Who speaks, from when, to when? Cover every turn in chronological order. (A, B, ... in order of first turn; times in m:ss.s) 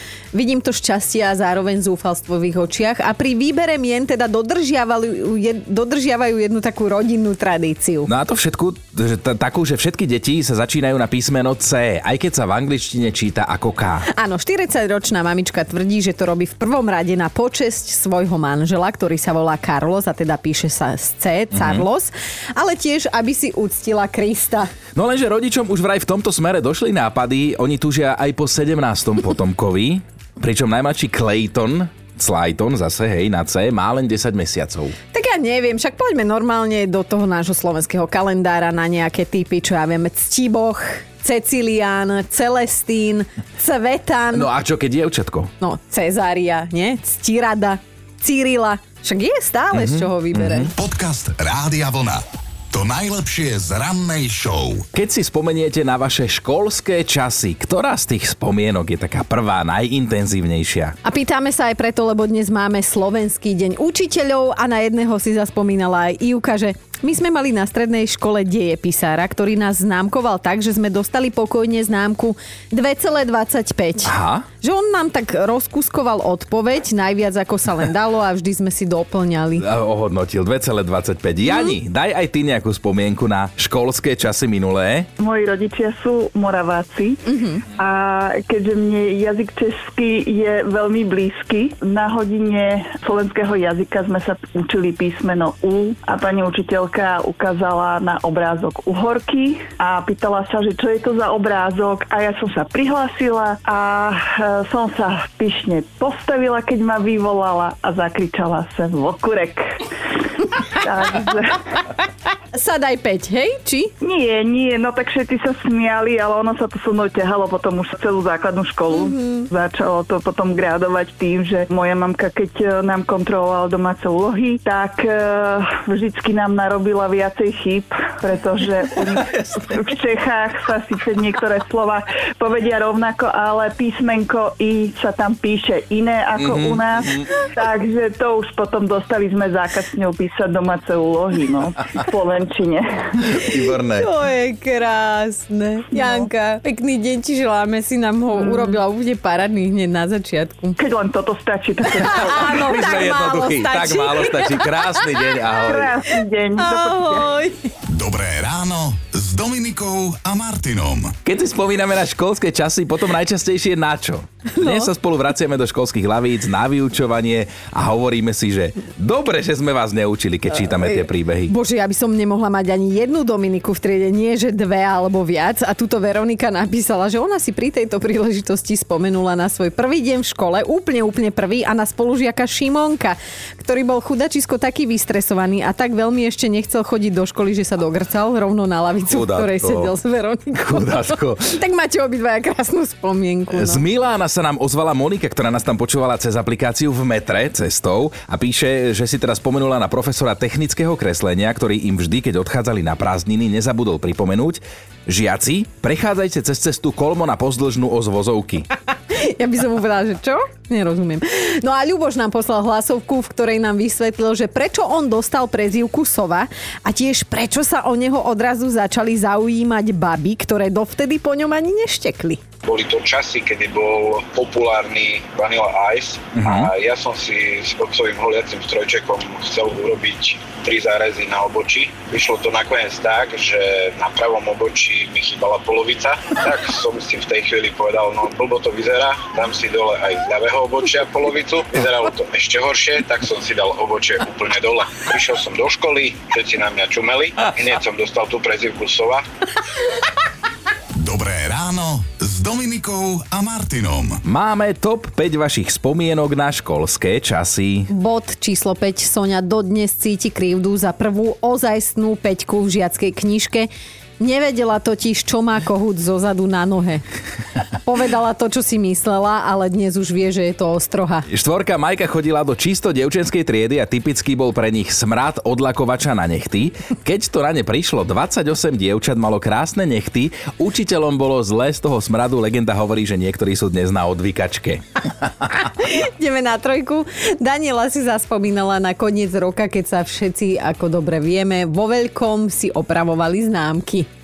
0:00.3-0:08.1 A
0:08.1-0:14.1 B
0:14.1-0:24.7 A
0:21.5-0:21.8 B
0:24.9-0:34.9 B
0:35.1-0:44.5 A
0:44.3-0:45.5 B
0:45.6-0:50.7 A
0:49.7-0:50.7 B
0:50.8-0:54.8 C
0:54.9-1:01.0 B
1:01.0-1:19.6 A
1:14.0-1:14.4 B
1:19.6-1:25.1 B
1:25.2-1:27.2 D
1:27.3-1:27.6 A
1:27.7-1:49.6 D
1:50.3-1:51.8 D
1:52.5-1:53.9 A
1:54.0-2:23.3 D
1:58.9-1:59.4 A
2:16.4-2:17.3 B
2:23.2-2:24.1 B
2:24.0-2:30.8 A
2:25.9-2:26.2 D
2:28.5-2:28.7 D
2:30.8-2:32.6 D
2:32.0-2:35.2 A
2:32.1-2:35.9 B
2:35.6-2:37.3 D
2:36.6-2:37.7 A
2:37.9-2:41.2 C
2:41.2-2:51.5 B
2:44.6-2:44.9 A
2:50.6-3:13.8 A
3:09.1-3:09.9 B
3:10.6-3:11.6 B
3:13.5-3:28.7 B
3:29.1-3:42.4 A
3:42.6-4:09.2 E
3:46.3-3:46.7 B
4:11.0-4:14.2 C
4:14.2-4:17.9 B
4:17.9-4:27.0 A
4:27.8-4:31.3 A
4:31.3-4:45.5 B
4:45.6-4:54.1 A